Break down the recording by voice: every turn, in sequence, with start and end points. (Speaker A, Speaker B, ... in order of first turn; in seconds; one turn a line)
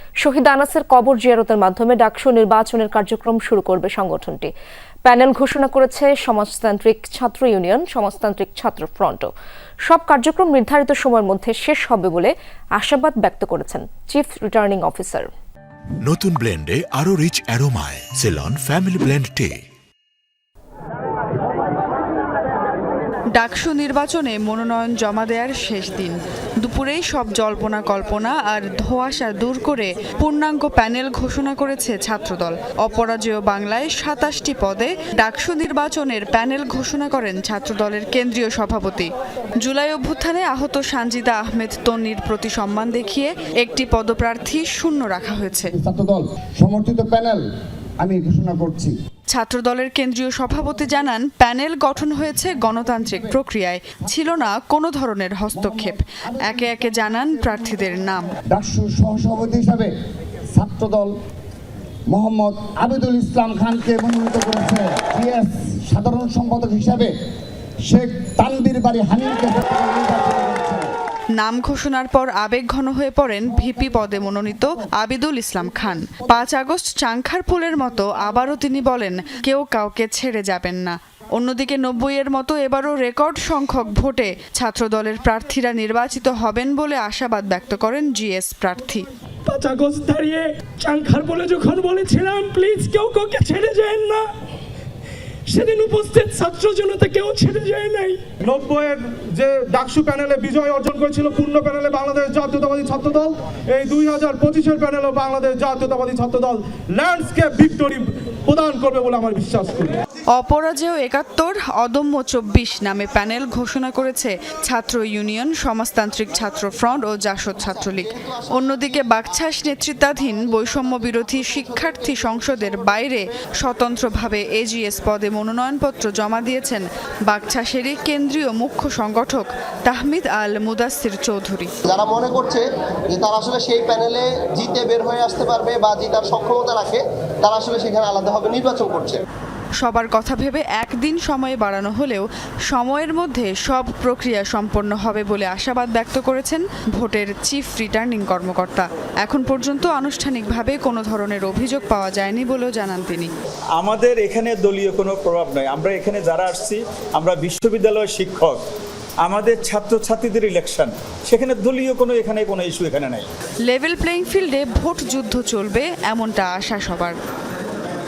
Speaker A: 0.2-4.5
Speaker A: 5.0-9.3
Speaker A: 9.9-15.3
Speaker B: 16.0-19.6
Speaker C: 23.3-45.7
Speaker D: 45.7-47.4
Speaker D: 48.0-48.9
Speaker C: 49.3-58.3
Speaker D: 55.5-56.8
Speaker D: 58.4-59.9
Speaker D: 60.5-61.1
Speaker D: 62.1-67.1
Speaker D: 67.9-70.9
Speaker C: 71.4-89.1
Speaker E: 89.5-94.3
Speaker E: 95.5-98.2
Speaker F: 98.4-110.0
Speaker C: 110.3-131.7
Speaker G: 131.8-139.2
Speaker C: 139.8-153.3
Speaker H: 153.8-158.6
Speaker H: 159.2-163.3
Speaker C: 163.7-167.1